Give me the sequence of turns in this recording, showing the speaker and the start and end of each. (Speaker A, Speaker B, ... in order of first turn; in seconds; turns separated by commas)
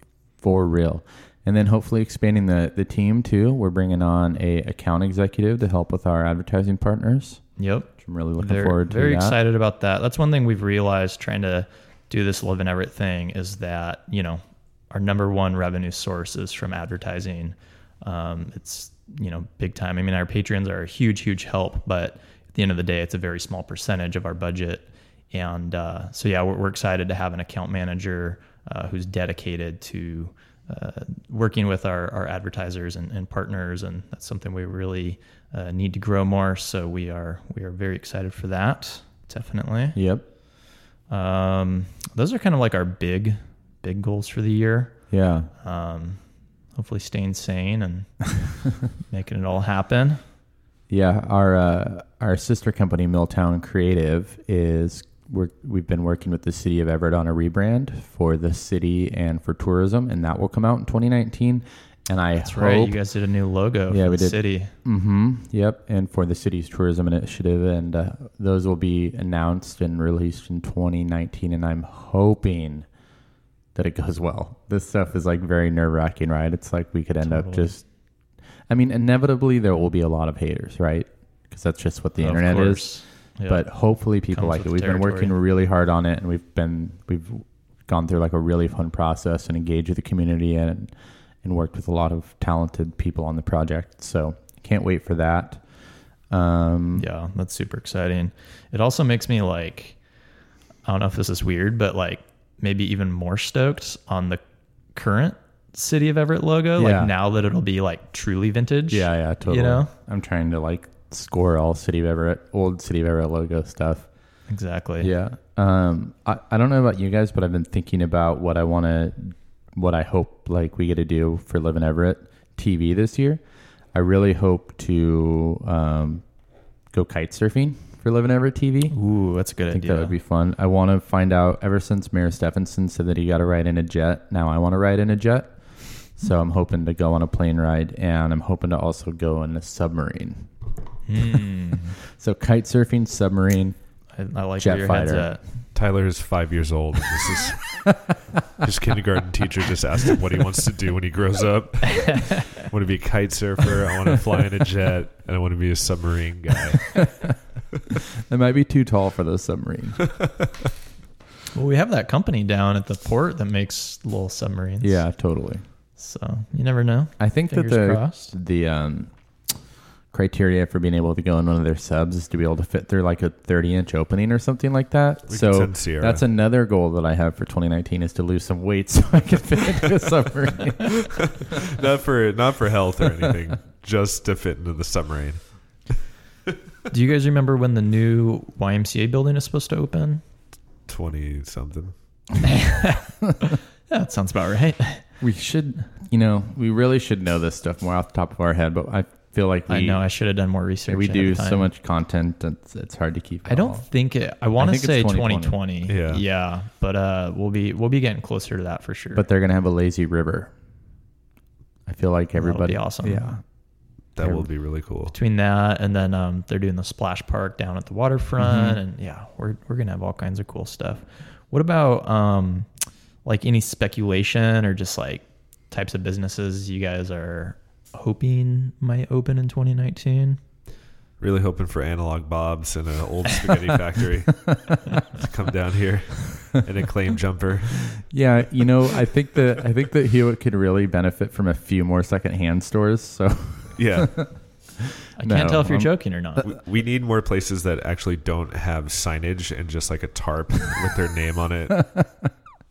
Speaker A: 0.4-7.4, Speaker B: 7.6-40.0, Speaker A: 8.0-9.4, Speaker A: 39.9-40.2, Speaker B: 41.1-44.9, Speaker A: 45.1-45.5, Speaker B: 45.6-46.2, Speaker B: 46.7-48.2, Speaker B: 49.0-50.2, Speaker A: 50.9-63.0, Speaker B: 62.4-64.7, Speaker A: 63.9-72.9, Speaker A: 73.7-77.8, Speaker B: 77.2-77.7, Speaker A: 78.7-82.9, Speaker B: 82.2-83.6, Speaker A: 83.5-95.6, Speaker B: 84.3-85.3, Speaker A: 96.3-97.0, Speaker B: 97.0-100.0, Speaker B: 100.8-104.4, Speaker B: 104.9-109.9, Speaker A: 106.8-107.1, Speaker A: 108.9-114.1, Speaker B: 114.5-115.1, Speaker A: 115.0-123.4, Speaker A: 123.9-126.2, Speaker A: 126.9-128.9, Speaker B: 128.9-130.1, Speaker A: 129.7-135.5, Speaker A: 136.1-140.5, Speaker B: 141.1-142.0, Speaker A: 142.1-143.8, Speaker B: 144.1-145.4, Speaker A: 144.6-145.3, Speaker C: 145.7-147.8, Speaker C: 148.6-157.0, Speaker B: 152.1-152.4, Speaker A: 156.9-157.3, Speaker A: 158.2-160.1, Speaker B: 161.5-165.0, Speaker A: 164.8-165.6, Speaker B: 166.0-168.3, Speaker A: 167.2-169.1, Speaker A: 170.1-181.6, Speaker C: 175.3-176.2, Speaker C: 181.1-185.4, Speaker B: 186.9-190.2, Speaker C: 190.9-191.9, Speaker B: 192.4-195.0, Speaker A: 195.2-200.0, Speaker B: 199.7-201.7, Speaker A: 200.9-203.8, Speaker B: 203.4-209.2, Speaker A: 204.6-205.6, Speaker C: 205.9-206.2, Speaker A: 209.1-210.5, Speaker A: 211.9-213.4, Speaker B: 212.3-213.2, Speaker C: 214.2-215.1, Speaker A: 214.2-214.5, Speaker B: 215.1-222.7, Speaker A: 218.4-218.8, Speaker B: 223.2-230.4, Speaker C: 231.2-238.0, Speaker A: 238.1-244.3, Speaker C: 243.8-244.3, Speaker A: 244.8-245.9, Speaker B: 245.2-246.5, Speaker C: 246.4-251.9, Speaker A: 251.7-252.3